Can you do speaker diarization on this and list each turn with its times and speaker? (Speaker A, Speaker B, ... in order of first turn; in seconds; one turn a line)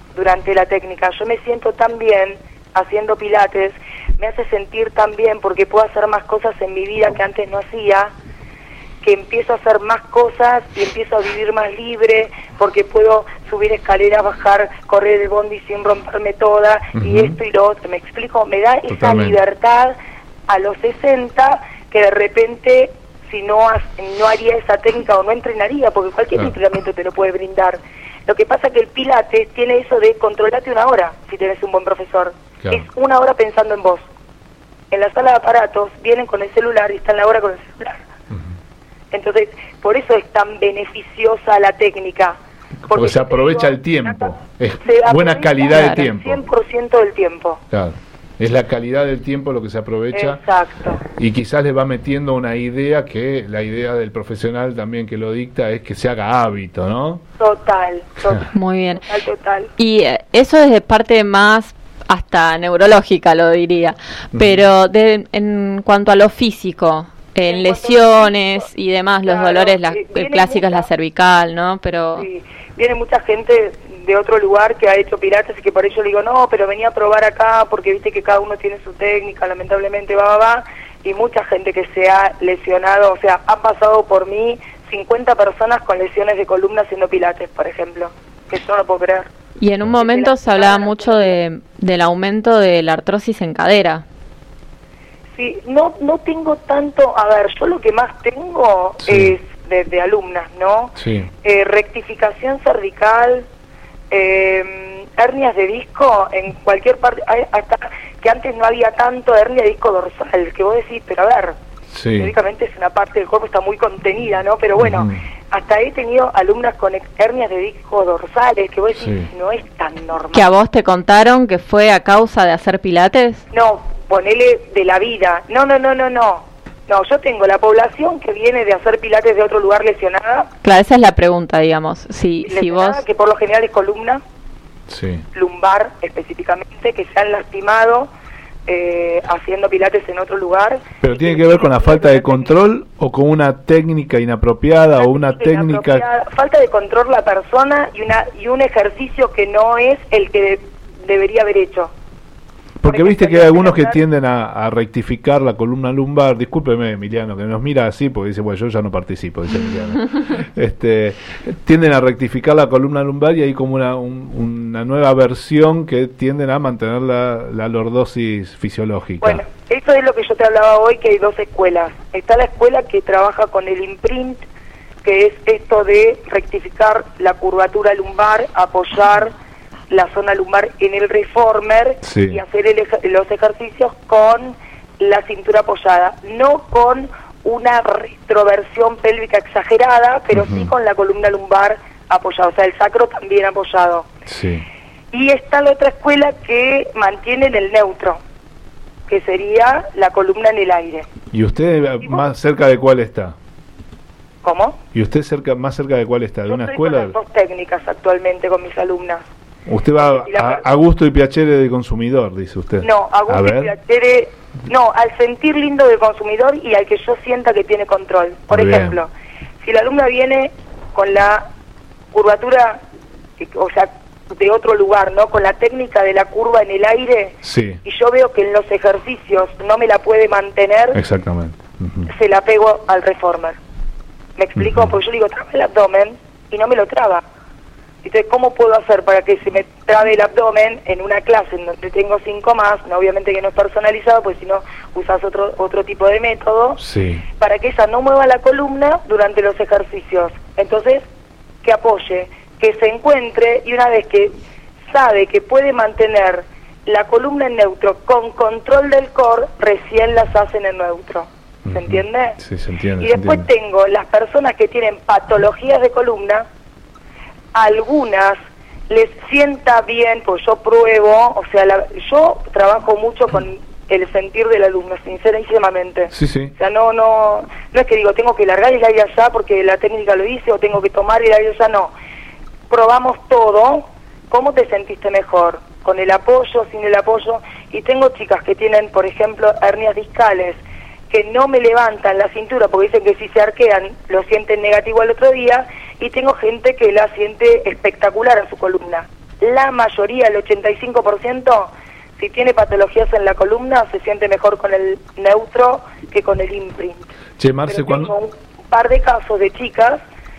Speaker A: 0.1-8.1
Speaker A: 9.0-20.0
Speaker B: 16.9-17.4
Speaker B: 18.9-19.4
Speaker A: 20.5-34.0
Speaker A: 34.9-38.0
Speaker A: 39.1-42.4
Speaker B: 42.9-46.5
Speaker A: 42.9-44.3
Speaker A: 44.8-47.6
Speaker C: 45.7-46.1
Speaker B: 47.7-50.4
Speaker A: 50.1-51.0
Speaker B: 51.2-57.2
Speaker A: 57.4-59.7
Speaker C: 58.5-59.0
Speaker C: 59.8-72.3
Speaker B: 64.3-64.7
Speaker A: 67.5-68.7
Speaker A: 69.3-70.9
Speaker A: 72.2-89.3
Speaker C: 89.6-94.0
Speaker A: 90.0-91.4
Speaker A: 95.3-103.5
Speaker B: 99.0-99.4
Speaker B: 101.0-101.3
Speaker A: 104.1-111.6
Speaker B: 111.9-112.3
Speaker A: 112.2-120.5
Speaker B: 114.8-115.2
Speaker B: 119.0-119.3
Speaker C: 120.3-123.4
Speaker A: 123.5-130.5
Speaker C: 130.6-133.0
Speaker A: 132.5-134.2
Speaker B: 134.9-135.2
Speaker A: 135.3-138.1
Speaker A: 138.7-142.6
Speaker B: 141.0-146.1
Speaker A: 145.0-151.9
Speaker B: 152.8-169.4
Speaker A: 152.8-154.0
Speaker A: 169.2-174.4
Speaker A: 175.0-179.3
Speaker A: 179.9-194.1
Speaker B: 182.0-182.4
Speaker B: 190.3-190.7
Speaker B: 194.3-194.7
Speaker A: 195.1-198.2
Speaker A: 199.1-201.1
Speaker B: 201.3-203.4
Speaker A: 204.4-204.8
Speaker B: 204.9-207.2
Speaker A: 206.5-209.3
Speaker B: 209.7-213.7
Speaker A: 210.0-210.6
Speaker A: 212.8-219.1
Speaker B: 218.5-219.0
Speaker A: 219.6-221.5
Speaker A: 222.1-222.8
Speaker A: 223.4-231.0
Speaker B: 227.4-227.8
Speaker B: 230.9-232.1
Speaker A: 232.1-233.6
Speaker A: 234.4-237.2
Speaker B: 234.6-235.0
Speaker A: 238.0-246.8
Speaker B: 246.8-247.2
Speaker A: 247.4-251.0
Speaker A: 251.6-254.3
Speaker A: 254.9-262.4
Speaker B: 261.7-263.5
Speaker A: 263.0-266.5
Speaker A: 267.6-268.4
Speaker A: 268.9-281.9
Speaker B: 276.1-276.5
Speaker A: 282.7-290.6
Speaker A: 291.1-307.1
Speaker B: 307.4-308.1
Speaker A: 307.7-310.0